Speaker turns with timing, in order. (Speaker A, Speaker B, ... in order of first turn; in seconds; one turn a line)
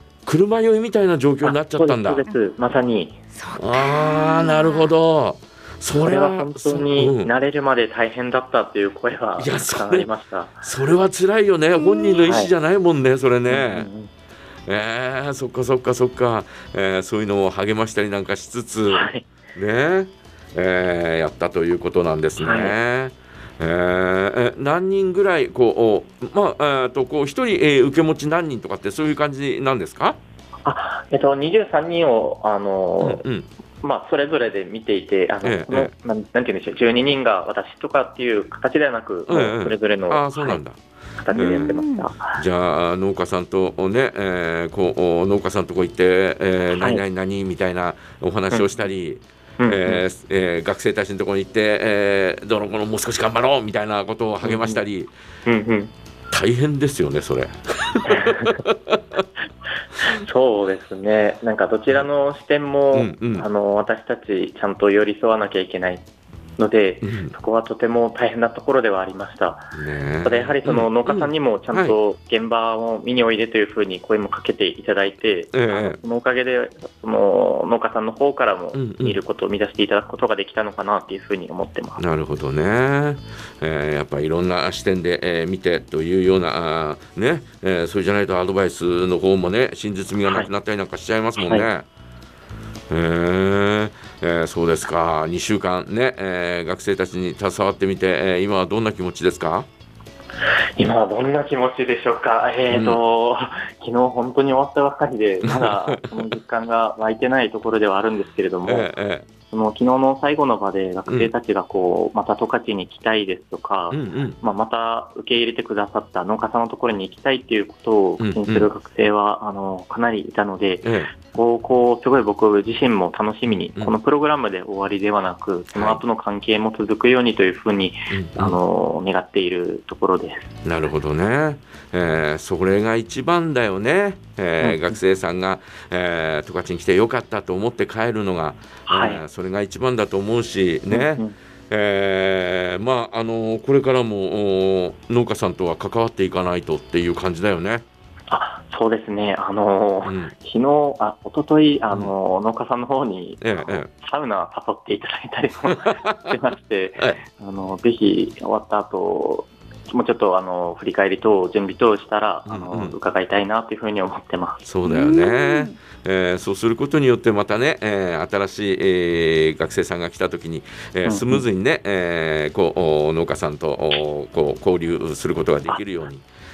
Speaker A: 0.2-2.2
Speaker B: 1.4-3.2
Speaker C: 3.3-4.9
Speaker A: 3.6-7.3
Speaker B: 6.0-10.5
Speaker A: 9.4-10.1
Speaker A: 10.6-13.9
Speaker C: 11.8-12.3
Speaker B: 12.2-12.5
Speaker B: 13.5-14.1
Speaker A: 14.7-30.2
Speaker B: 18.9-19.3
Speaker B: 22.4-22.7
Speaker B: 30.6-33.2
Speaker A: 33.0-33.5
Speaker B: 33.8-40.6
Speaker A: 35.4-35.9
Speaker A: 39.3-40.8
Speaker B: 41.2-42.4
Speaker A: 41.3-41.8
Speaker C: 41.4-42.0
Speaker A: 42.3-55.1
Speaker B: 46.7-47.0
Speaker B: 49.6-50.0
Speaker B: 54.4-54.8
Speaker B: 55.5-55.9
Speaker A: 56.3-59.2
Speaker B: 58.1-58.5
Speaker B: 60.1-66.0
Speaker A: 62.9-63.5
Speaker B: 66.6-82.0
Speaker A: 67.0-67.3
Speaker A: 69.7-72.0
Speaker A: 75.5-76.0
Speaker A: 78.7-79.2
Speaker A: 82.0-91.9
Speaker B: 91.4-91.7
Speaker A: 92.9-99.7
Speaker B: 100.8-108.9
Speaker A: 102.7-103.0
Speaker A: 105.4-106.1
Speaker A: 108.6-109.2
Speaker B: 109.5-130.5
Speaker A: 113.9-114.4
Speaker A: 118.2-118.7
Speaker A: 120.8-121.1
Speaker A: 123.5-124.0
Speaker A: 125.7-126.0
Speaker A: 128.1-128.6
Speaker A: 130.6-147.8
Speaker B: 134.6-135.0
Speaker B: 138.9-139.2
Speaker B: 140.9-141.3
Speaker B: 148.3-164.7
Speaker A: 150.0-150.3
Speaker A: 153.4-153.9
Speaker A: 162.5-162.9
Speaker A: 164.6-176.2
Speaker C: 164.8-165.8
Speaker B: 171.0-171.4